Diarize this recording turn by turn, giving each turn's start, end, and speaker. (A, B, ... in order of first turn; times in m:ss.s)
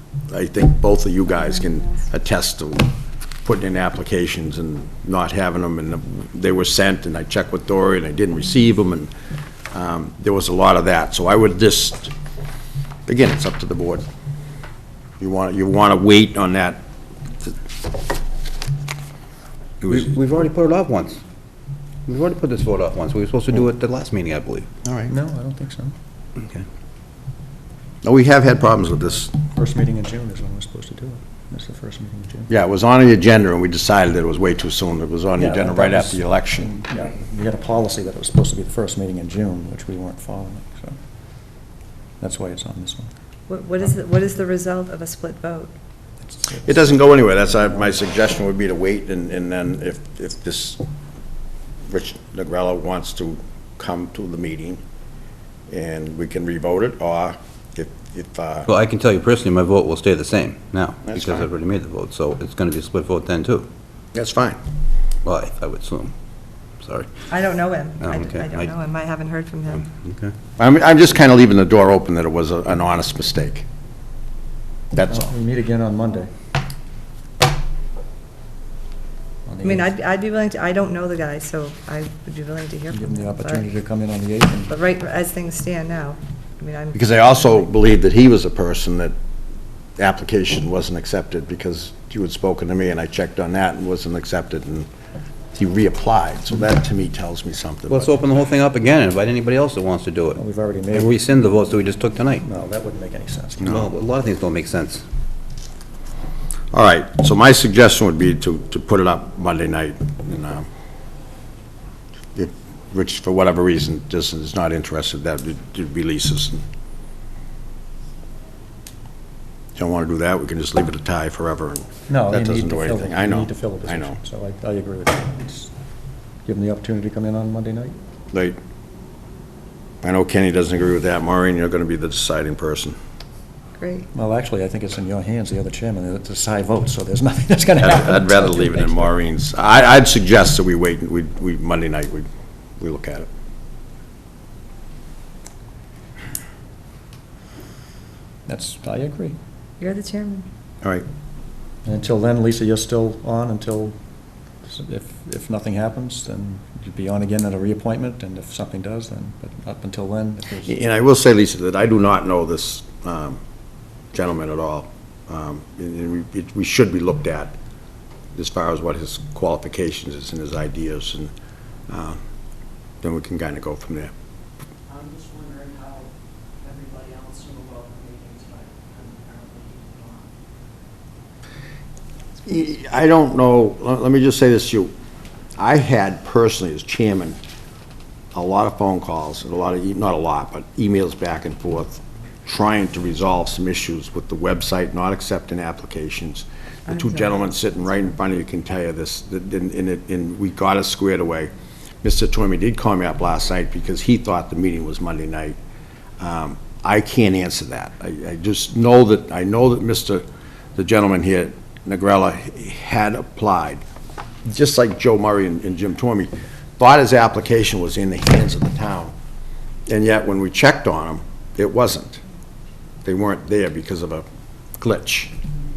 0:00.3-0:02.9 A
0:03.4-0:09.1 A
0:09.7-0:12.1 A
0:13.1-0:14.0 A
0:15.2-0:16.8 A
0:19.8-0:20.1 A
0:19.9-0:21.2 B
0:22.1-0:24.7 B
0:24.8-0:25.1 A
0:25.1-0:25.9 C
0:28.0-0:29.3 A
0:29.3-0:32.5 C
0:32.5-0:36.7 A
0:35.4-0:41.0 C
0:42.2-0:43.1 C
0:43.5-0:45.7 D
0:46.2-0:47.0 C
0:46.6-0:50.8 A
0:51.9-0:54.8 A
0:55.7-0:58.7 A
0:58.7-1:03.7 B
1:01.1-1:01.4 A
1:04.1-1:04.6 A
1:05.2-1:06.1 B
1:06.8-1:07.3 B
1:07.3-1:09.9 D
1:08.0-1:08.7 B
1:09.8-1:10.3 B
1:10.6-1:13.6 A
1:14.9-1:15.3 A
1:15.1-1:16.3 C
1:19.4-1:19.9 C
1:19.6-1:23.6 D
1:22.9-1:24.7 C
1:24.7-1:27.5 D
1:26.9-1:29.1 A
1:30.0-1:34.9 A
1:35.5-1:38.1 A
1:37.9-1:42.4 B
1:40.3-1:41.1 C
1:42.4-1:43.8 C
1:43.6-1:45.0 B
1:46.7-1:50.7 A
1:52.3-1:56.6 A
1:59.8-2:04.2 A
2:02.1-2:05.7 C
2:06.4-2:08.0 C
2:08.3-2:08.6 A
2:10.0-2:13.0 A
2:13.8-2:14.1 D
2:14.1-2:19.1 C
2:17.8-2:22.3 A
2:22.8-2:23.3 A
2:28.5-2:29.4 C
2:29.8-2:30.5 D
2:31.8-2:34.0 C
2:34.6-2:40.7 C
2:40.7-2:43.4 A
2:44.1-2:47.6 A
2:48.4-2:51.3 A
2:51.9-2:52.2 A
2:53.0-2:54.1 A
2:54.9-3:00.3 E
3:02.4-3:04.9 A
3:05.6-3:07.4 A
3:08.3-3:21.5 A
3:22.0-3:25.6 A
3:26.2-3:30.2 A
3:30.8-3:33.8 A
3:34.4-3:39.1 A
3:39.9-3:42.2 A
3:43.0-3:44.2 A
3:44.8-3:45.4 A